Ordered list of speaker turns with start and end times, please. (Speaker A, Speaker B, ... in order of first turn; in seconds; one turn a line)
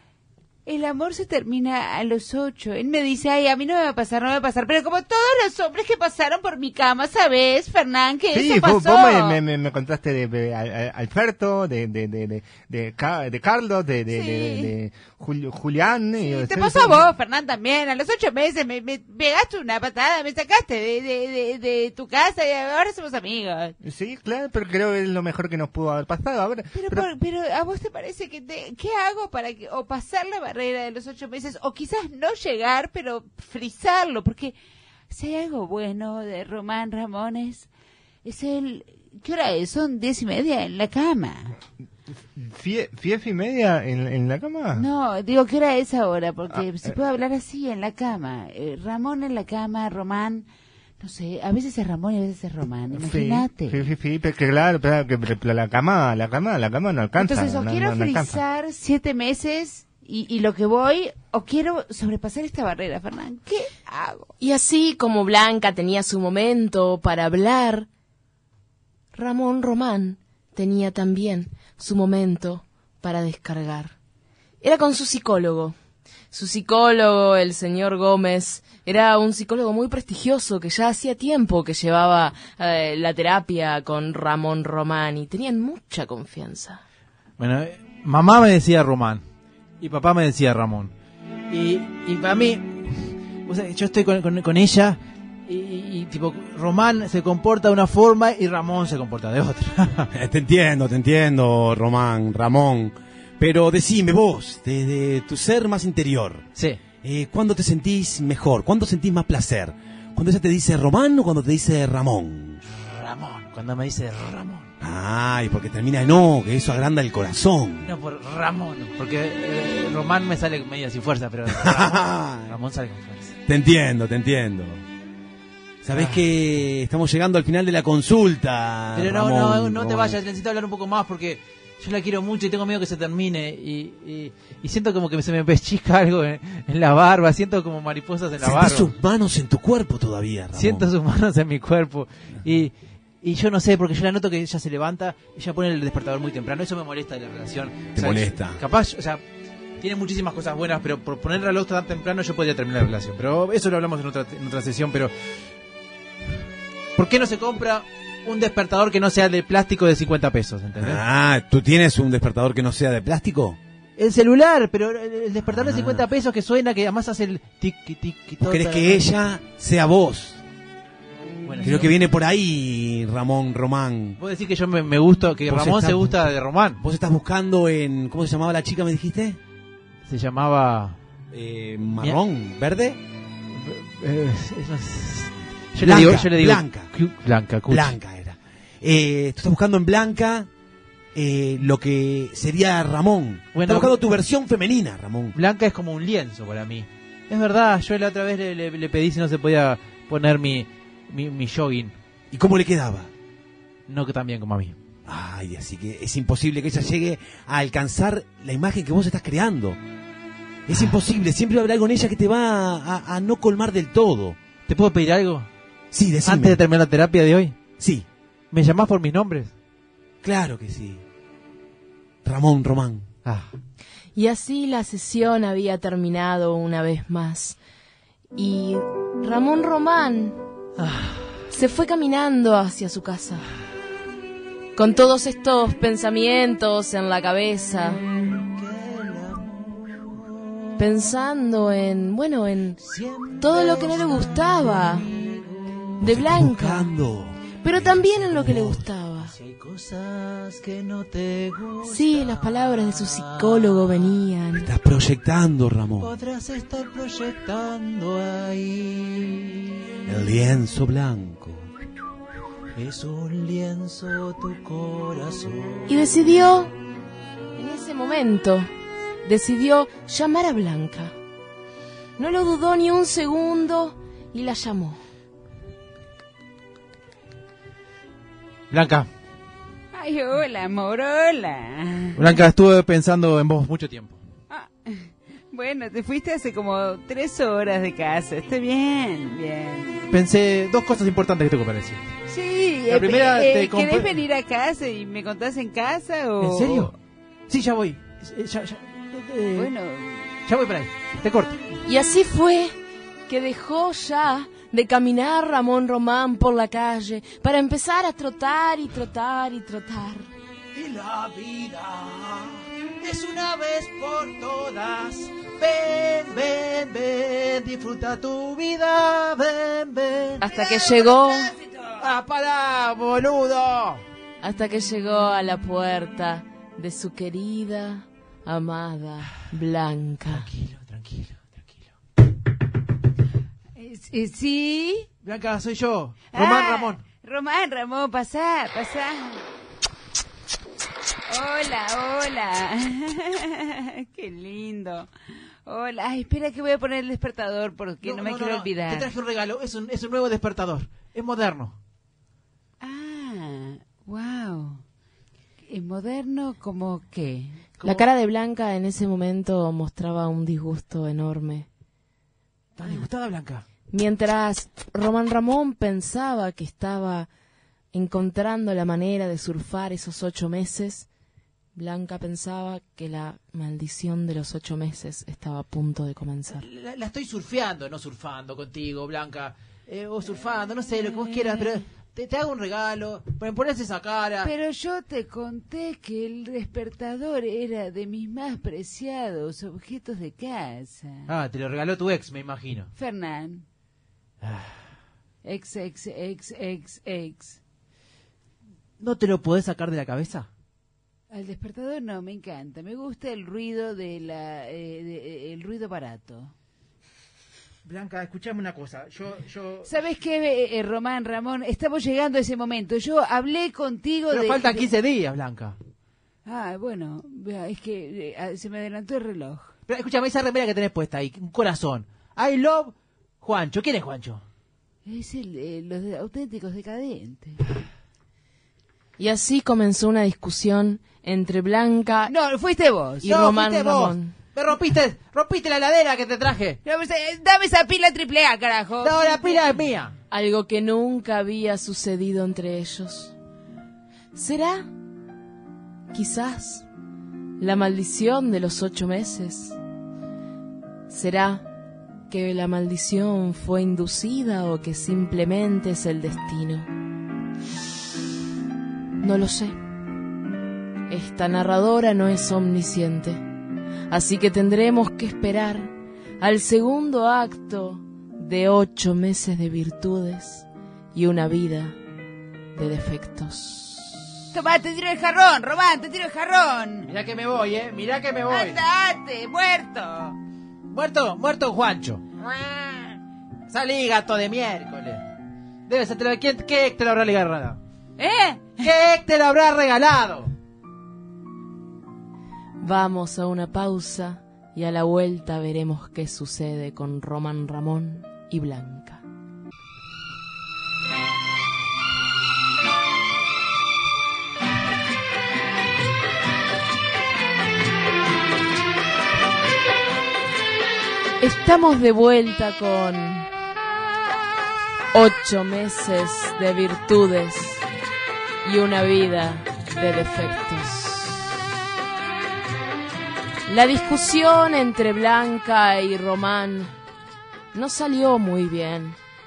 Speaker A: 0.7-9.4
Speaker B: 8.3-17.1
Speaker A: 14.1-14.7
Speaker A: 16.2-23.8
Speaker B: 23.8-27.1
Speaker A: 26.7-34.5
Speaker A: 35.1-37.7
Speaker A: 38.2-41.5
Speaker B: 42.4-44.9
Speaker A: 44.7-50.5
Speaker B: 46.5-46.9
Speaker A: 51.0-53.9
Speaker B: 52.9-58.4
Speaker A: 57.2-64.3
Speaker C: 64.4-67.9
Speaker C: 69.1-74.0
Speaker C: 74.6-75.8
Speaker C: 76.3-86.8
Speaker D: 87.4-89.2
Speaker D: 89.8-90.9
Speaker D: 91.5-100.1
Speaker E: 100.1-106.5
Speaker D: 106.6-106.8
Speaker E: 107.0-112.6
Speaker D: 112.7-114.7
Speaker E: 114.8-117.9
Speaker D: 117.8-123.4
Speaker E: 121.5-122.5
Speaker E: 123.5-124.8
Speaker E: 125.8-130.2
Speaker D: 125.9-126.2
Speaker D: 128.9-138.9
Speaker E: 138.4-140.9
Speaker D: 140.6-149.2
Speaker E: 147.9-148.6
Speaker D: 149.8-155.1
Speaker D: 156.9-161.0
Speaker E: 160.8-163.6
Speaker D: 164.0-169.1
Speaker E: 165.5-166.1
Speaker E: 168.4-170.4
Speaker D: 171.4-171.9
Speaker E: 171.6-174.2
Speaker D: 174.2-176.8
Speaker E: 175.5-176.2
Speaker E: 176.8-179.4
Speaker D: 180.1-181.0
Speaker E: 181.3-183.0
Speaker D: 183.5-188.0
Speaker E: 185.8-186.9
Speaker E: 187.7-190.5
Speaker E: 191.1-195.3
Speaker D: 193.5-194.0
Speaker D: 195.3-201.9
Speaker E: 202.3-203.1
Speaker D: 203.9-204.8
Speaker E: 205.1-209.8
Speaker E: 210.7-214.4
Speaker D: 210.7-211.0
Speaker D: 214.7-215.5
Speaker E: 215.9-216.6
Speaker D: 216.2-217.6
Speaker E: 217.8-218.1
Speaker D: 218.5-219.5
Speaker E: 220.2-221.0
Speaker E: 222.2-223.1
Speaker C: 224.2-227.6
Speaker C: 228.3-230.4
Speaker D: 230.8-231.2
Speaker C: 231.5-233.5
Speaker C: 234.8-238.0
Speaker D: 238.5-240.7
Speaker C: 240.8-242.8
Speaker D: 242.8-246.0
Speaker C: 243.4-245.1
Speaker E: 246.0-247.9
Speaker C: 246.0-246.9
Speaker C: 247.6-249.3
Speaker D: 248.2-254.1
Speaker C: 251.8-254.7
Speaker E: 254.6-256.1
Speaker D: 256.0-259.7
Speaker E: 260.1-261.7
Speaker D: 262.8-265.9
Speaker C: 265.9-266.7
Speaker C: 267.6-268.7
Speaker C: 269.2-271.1
Speaker C: 272.2-275.0
Speaker D: 278.7-279.1
Speaker A: 279.9-282.4
Speaker D: 282.1-284.2
Speaker A: 284.5-290.1
Speaker D: 290.1-292.1
Speaker A: 292.3-296.9
Speaker D: 292.9-294.2
Speaker D: 296.4-296.9
Speaker D: 297.5-299.7
Speaker A: 299.5-300.3
Speaker D: 300.5-301.6
Speaker C: 301.9-302.7
Speaker C: 303.3-310.3
Speaker D: 310.7-320.5
Speaker C: 320.4-321.5
Speaker D: 322.0-324.0
Speaker C: 324.4-330.5
Speaker D: 330.3-331.9
Speaker A: 333.8-335.1
Speaker D: 335.2-337.0
Speaker A: 336.3-339.4
Speaker A: 341.3-345.1
Speaker A: 345.6-349.1
Speaker D: 348.0-351.8
Speaker A: 352.8-354.8
Speaker A: 355.7-357.7
Speaker D: 357.8-358.1
Speaker C: 357.8-361.7
Speaker D: 362.8-363.6
Speaker C: 363.9-367.3
Speaker C: 367.9-371.1
Speaker C: 371.8-376.7
Speaker D: 376.5-384.5
Speaker A: 384.4-391.3
Speaker D: 391.3-392.9
Speaker A: 393.0-393.6
Speaker D: 394.4-394.8
Speaker A: 395.4-397.6
Speaker D: 399.0-400.5
Speaker A: 401.3-406.5
Speaker D: 407.9-409.9
Speaker A: 409.9-414.9
Speaker D: 414.3-415.8
Speaker A: 416.5-419.7
Speaker D: 419.9-424.4
Speaker A: 425.1-427.6
Speaker C: 429.2-432.3
Speaker A: 432.3-433.3
Speaker C: 433.2-434.4
Speaker D: 433.2-436.8
Speaker A: 436.9-439.8
Speaker D: 439.0-440.1
Speaker C: 440.3-443.3
Speaker C: 444.3-444.9
Speaker C: 446.1-446.9
Speaker C: 447.6-449.8
Speaker C: 451.1-451.6
Speaker C: 452.3-456.9
Speaker C: 459.2-459.8
Speaker C: 461.1-463.4
Speaker C: 464.1-472.0
Speaker C: 472.8-474.2
Speaker A: 474.5-477.1
Speaker D: 477.1-478.8
Speaker A: 478.5-480.4
Speaker D: 480.9-482.2
Speaker A: 482.4-483.1
Speaker D: 483.7-485.2
Speaker D: 485.9-487.8
Speaker A: 488.2-488.9
Speaker D: 488.8-490.5
Speaker C: 492.8-499.2
Speaker C: 511.4-513.5
Speaker C: 515.1-517.8
Speaker C: 518.6-521.5
Speaker C: 523.7-526.9
Speaker C: 527.7-529.2